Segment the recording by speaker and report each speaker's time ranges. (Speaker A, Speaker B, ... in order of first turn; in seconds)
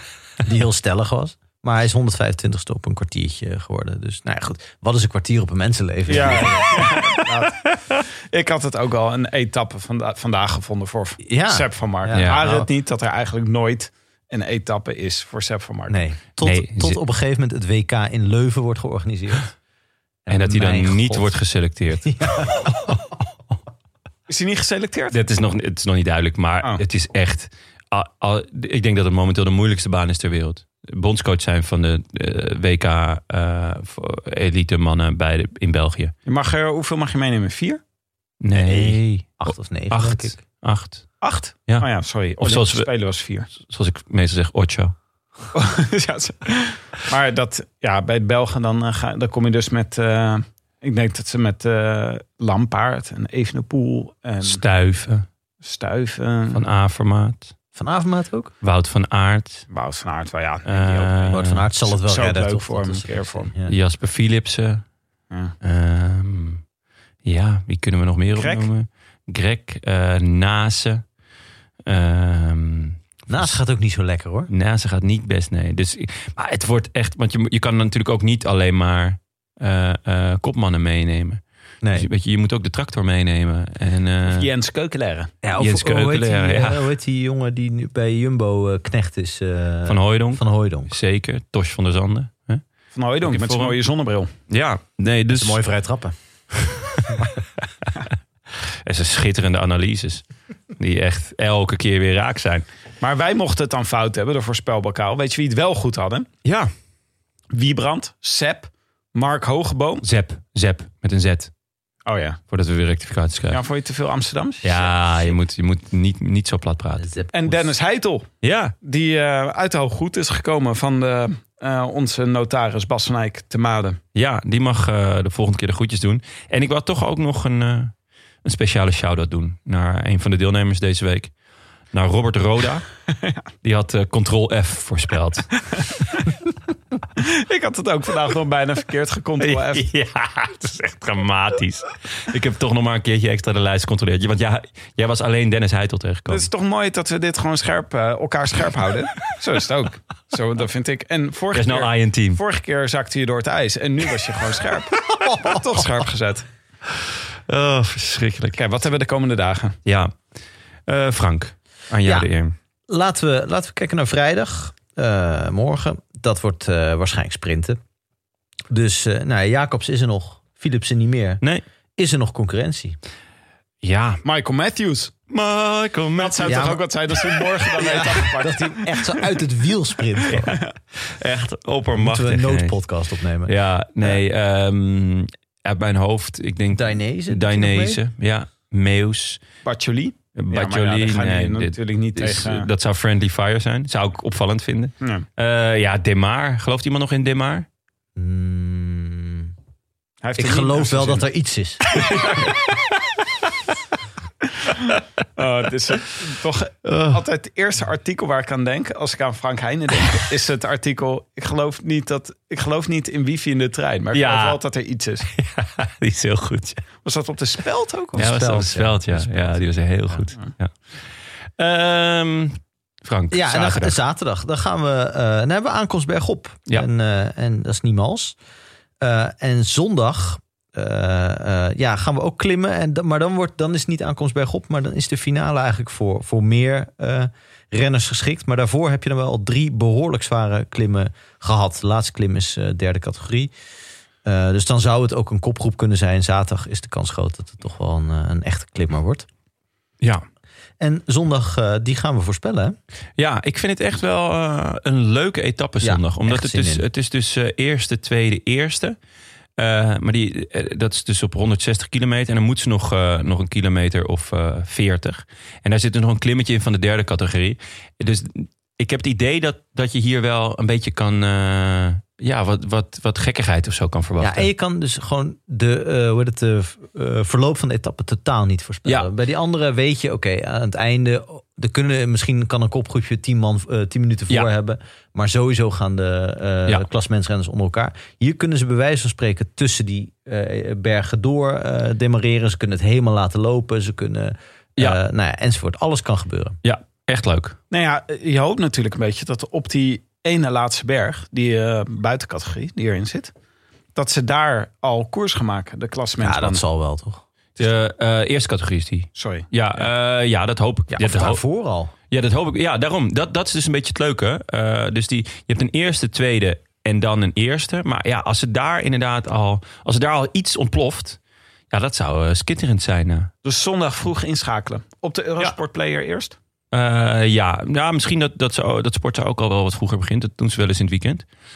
Speaker A: 0.4-7.0, 11.2-12.7, 15.9-19.6, 20.2-21.3, 22.0-23.1, 38.5-40.4, 57.7-58.5, 61.3-63.7, 73.3-74.5, 81.8-82.1, 85.4-90.9, 95.3-96.1, 117.0-117.3, 155.2-155.6, 162.9-167.8, 168.7-171.4, 172.0-173.0, 176.4-176.8, 177.8-180.6, 181.9-183.5, 186.7-188.0, 198.2-199.5, 200.4-202.0, 218.2-220.3, 223.3-228.4, 229.0-243.5, 244.2-249.2, 250.8-252.8, 255.8-256.8, 274.2-296.6, 306.2-307.2, 310.9-311.9
Speaker B: 6.1-16.0, 24.3-25.1, 36.2-37.8, 41.2-43.5, 45.5-54.6, 55.6-56.6, 59.7-63.5, 68.4-68.7, 84.2-85.3, 92.9-94.3, 103.0-106.3, 107.5-110.0, 112.0-112.4, 113.5-114.9, 117.3-118.3, 118.8-124.0, 137.2-139.9, 146.3-156.4, 158.6-159.8, 174.2-175.1, 176.2-179.2, 180.4-180.7, 189.6-192.7, 195.0-195.2, 200.2-201.2, 202.1-202.5, 204.7-215.2, 217.0-218.2, 297.7-303.3, 303.9-306.6, 309.1-309.9, 323.4-326.4
Speaker C: 12.1-12.5, 16.4-17.0, 20.3-22.3, 25.1-36.1, 38.4-41.9, 42.4-42.9, 43.5-44.9, 54.4-55.2, 56.5-57.5, 58.6-59.6, 60.6-61.6, 63.6-64.8, 65.6-66.6, 67.2-71.0, 71.8-73.6, 74.5-81.4, 81.9-84.5, 85.6-86.9, 89.8-92.6, 93.2-93.8, 94.5-95.6, 98.8-100.2, 100.8-102.7, 106.4-106.7, 110.0-111.5, 112.5-113.6, 114.6-117.2, 118.4-118.7, 124.1-127.9, 128.4-131.3, 131.9-132.8, 133.6-135.5, 139.4-146.5, 151.5-152.4, 157.5-158.6, 159.8-160.1, 160.9-162.5, 173.8-174.2, 175.3-176.6, 181.0-182.8, 183.4-189.4, 190.3-197.7, 206.8-207.2, 214.1-214.6, 215.3-216.8, 218.2-220.7, 221.6-224.0, 253.2-259.0, 259.6-274.5, 296.6-297.6, 307.6-311.4, 312.1-321.2, 321.7-323.3, 326.7-331.2